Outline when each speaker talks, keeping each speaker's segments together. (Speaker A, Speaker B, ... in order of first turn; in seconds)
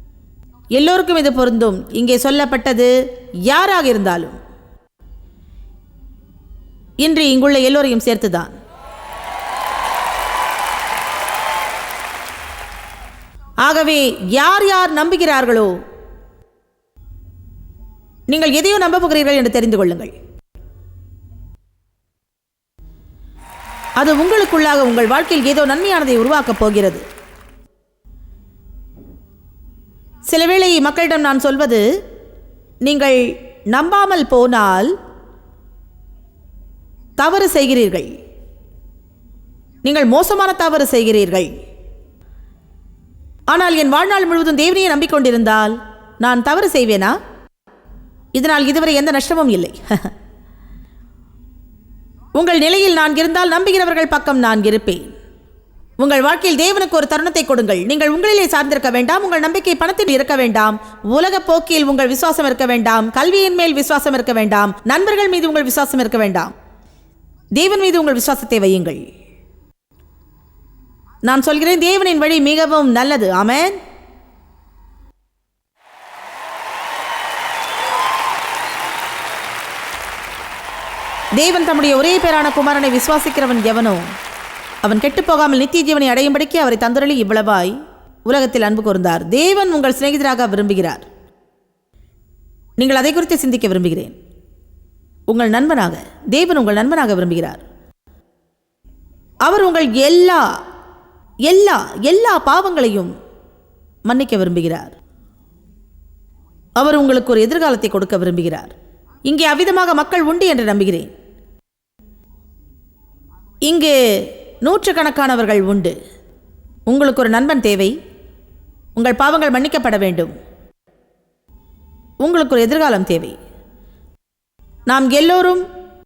Speaker A: 0.7-2.9, 3.5-4.4, 7.0-8.5, 13.6-15.7, 18.3-20.1, 24.0-27.0, 30.3-31.9, 32.8-34.9, 37.2-38.1, 39.8-41.5, 43.5-47.1, 48.3-50.1, 52.4-55.1, 56.0-66.5, 67.6-69.0, 71.2-73.8, 81.4-84.0, 84.8-87.7, 88.3-91.0, 92.8-94.1, 95.3-97.6, 99.4-100.5, 101.5-103.1, 104.1-104.9, 106.8-108.7, 109.3-111.1, 113.7-115.9, 116.9-117.9, 119.0-120.3, 122.2-123.3, 124.9-125.6